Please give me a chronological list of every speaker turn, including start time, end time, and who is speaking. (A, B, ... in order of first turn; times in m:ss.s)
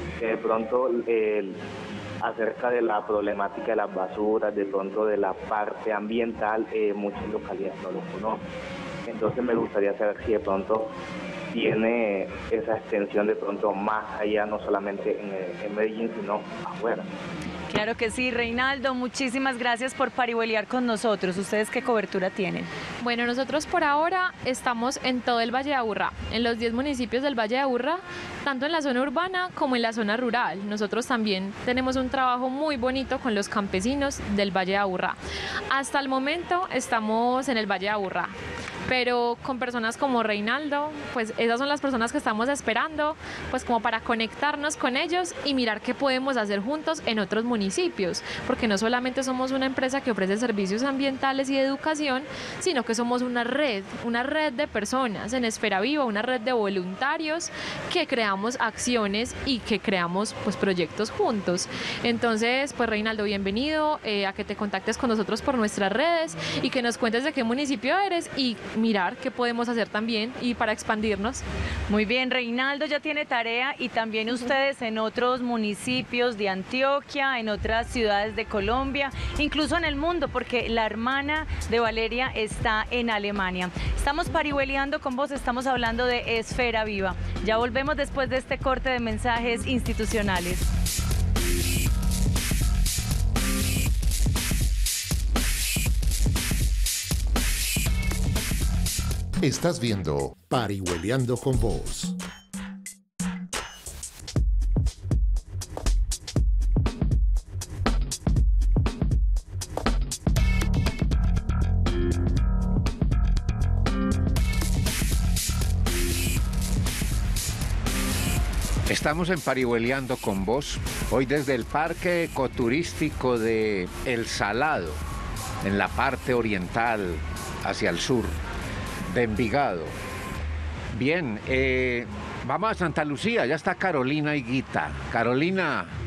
0:00.2-0:01.6 A
0:02.2-0:08.4 A
0:09.1-0:10.9 A
0:11.5-0:17.1 A
0:17.7-0:22.7 B
0:23.0-0:35.2 C
0:35.7-0:38.3 C
0:38.9-1:11.4 C
1:11.9-1:30.7 B
1:39.4-1:42.2 D
1:58.9-2:05.0 E
2:05.6-2:08.4 E
2:09.1-2:09.9 E
2:10.9-2:15.9 E